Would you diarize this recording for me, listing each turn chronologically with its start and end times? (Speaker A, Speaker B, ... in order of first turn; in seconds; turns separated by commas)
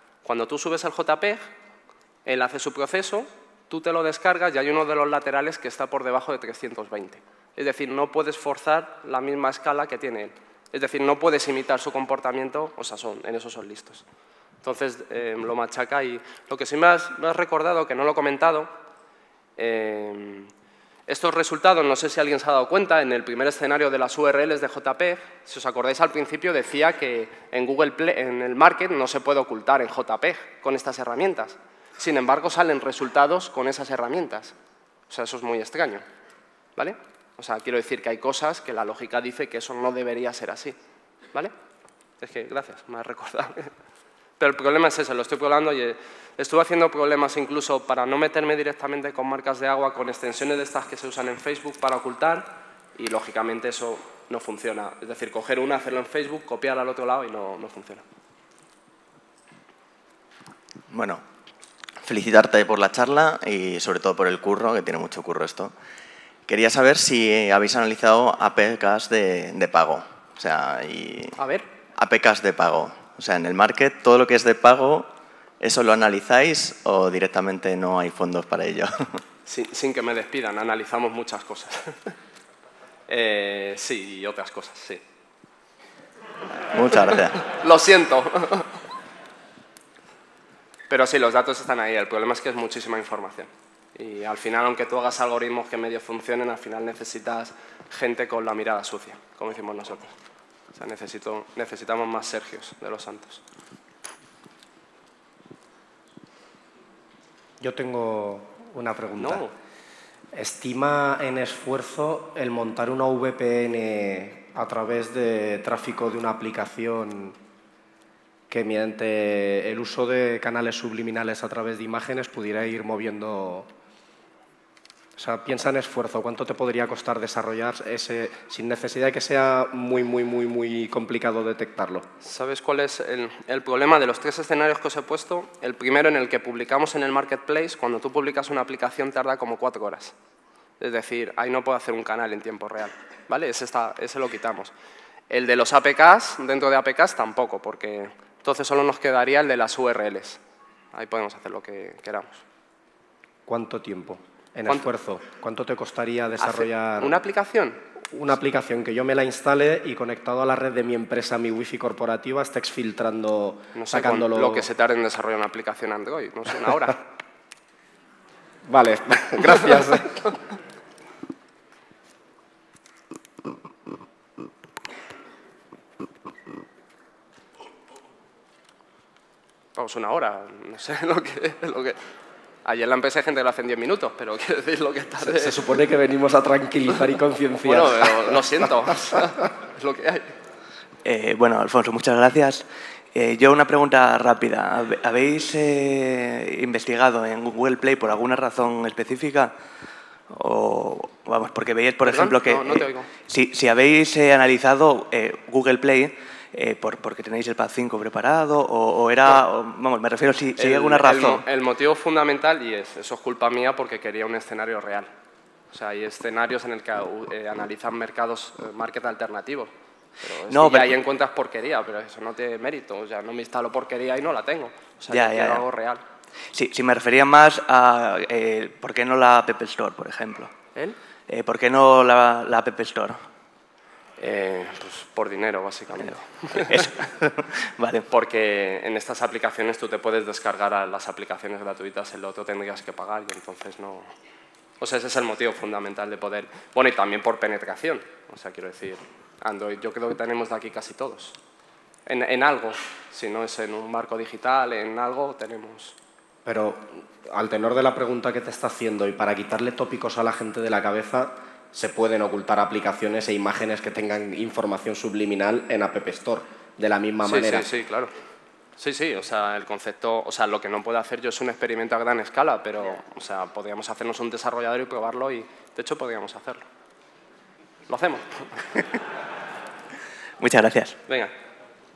Speaker A: 0.2-1.5, Speaker A: 2.2-14.0, Speaker A: 14.6-18.7, Speaker A: 19.6-20.5, Speaker A: 21.1-34.5, Speaker A: 35.1-36.0, Speaker A: 36.8-40.8, Speaker A: 42.2-43.7, Speaker A: 44.4-58.0, Speaker B: 60.9-61.2, Speaker B: 62.0-65.7, Speaker B: 66.5-71.3, Speaker A: 71.4-71.7, Speaker B: 72.0-75.1, Speaker B: 75.6-79.2, Speaker A: 79.5-82.1, Speaker A: 83.1-85.0, Speaker B: 86.7-87.4, Speaker A: 87.3-88.8, Speaker A: 90.9-100.1, Speaker A: 100.7-103.4, Speaker C: 107.6-109.4, Speaker A: 109.2-109.5, Speaker C: 110.3-117.4, Speaker C: 118.5-123.7, Speaker C: 125.2-132.1, Speaker A: 132.2-140.1, Speaker A: 140.8-144.7, Speaker A: 145.3-150.4, Speaker A: 150.9-152.4, Speaker C: 153.4-157.2, Speaker A: 156.4-157.8, Speaker C: 158.1-164.7, Speaker A: 163.7-167.0, Speaker C: 168.7-170.3, Speaker A: 179.8-182.0, Speaker A: 182.6-185.6, Speaker C: 185.2-188.4, Speaker A: 187.6-190.3, Speaker D: 191.0-199.5, Speaker D: 200.3-211.4, Speaker A: 202.0-203.1, Speaker A: 210.6-215.1, Speaker A: 215.7-226.0, Speaker D: 220.5-220.9, Speaker D: 225.1-225.7, Speaker D: 226.5-230.5, Speaker D: 231.3-233.2, Speaker A: 234.2-236.9, Speaker D: 236.5-238.1, Speaker A: 238.1-244.1, Speaker A: 244.8-251.3, Speaker A: 252.1-255.9, Speaker C: 256.4-267.7, Speaker A: 267.2-268.1, Speaker A: 268.8-276.6, Speaker A: 277.9-278.8, Speaker D: 280.4-281.0